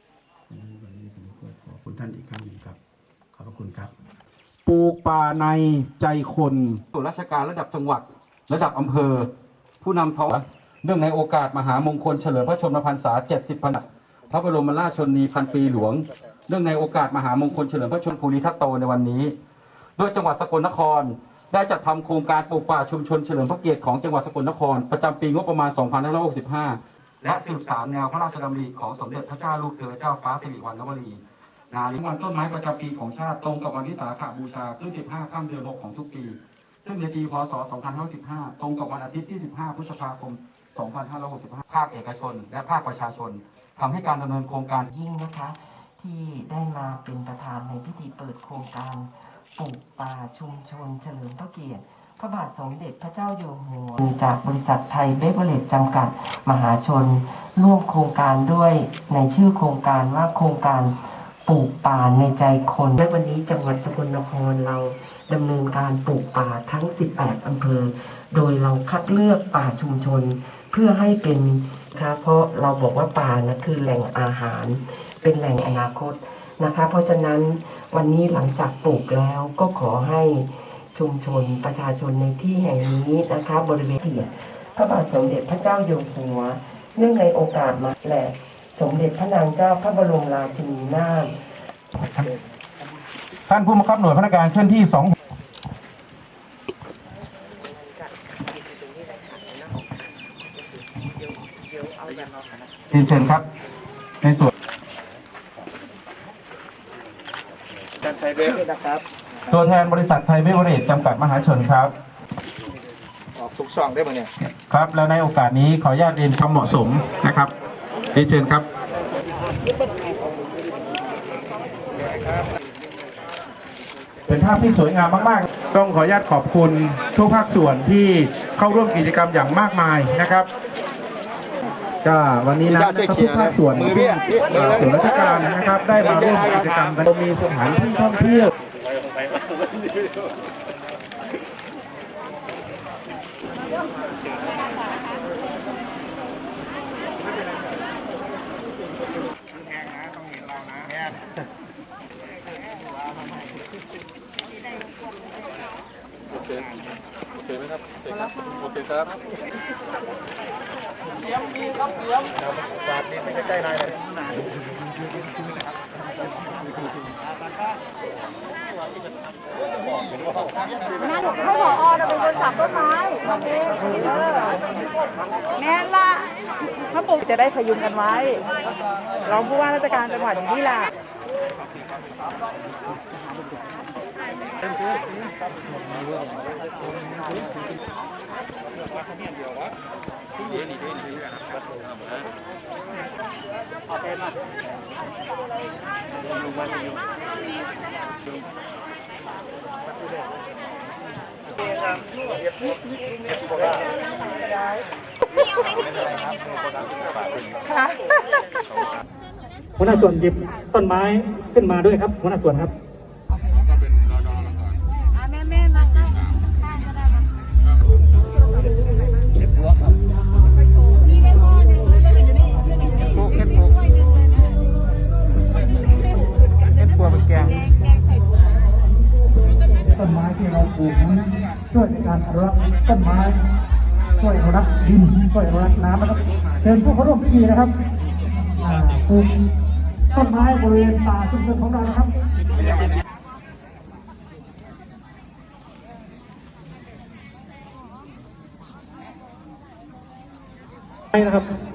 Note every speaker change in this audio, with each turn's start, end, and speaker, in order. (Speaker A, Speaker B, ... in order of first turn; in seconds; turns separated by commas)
Speaker A: 0.7-2.7, Speaker A: 3.4-3.9, Speaker A: 4.7-6.8, Speaker B: 6.9-9.3, Speaker B: 9.8-19.3, Speaker B: 20.0-31.2, Speaker B: 31.7-44.9, Speaker C: 44.9-91.4, Speaker A: 93.5-95.1, Speaker C: 97.4-102.7, Speaker A: 102.9-103.4, Speaker A: 104.2-104.5, Speaker D: 108.0-109.0, Speaker A: 109.5-111.9, Speaker D: 113.4-114.3, Speaker A: 114.5-117.5, Speaker A: 118.1-118.7, Speaker A: 124.3-130.5, Speaker A: 132.0-138.5, Speaker D: 132.7-135.4, Speaker D: 136.0-136.8, Speaker D: 158.7-159.0, Speaker D: 162.8-163.8, Speaker E: 171.0-174.7, Speaker E: 175.6-176.3, Speaker E: 176.9-178.5, Speaker E: 179.2-180.9, Speaker E: 207.7-208.0, Speaker F: 209.8-212.7, Speaker F: 229.9-233.4, Speaker F: 234.2-237.7, Speaker F: 238.6-239.3, Speaker F: 240.1-242.1, Speaker F: 251.1-251.5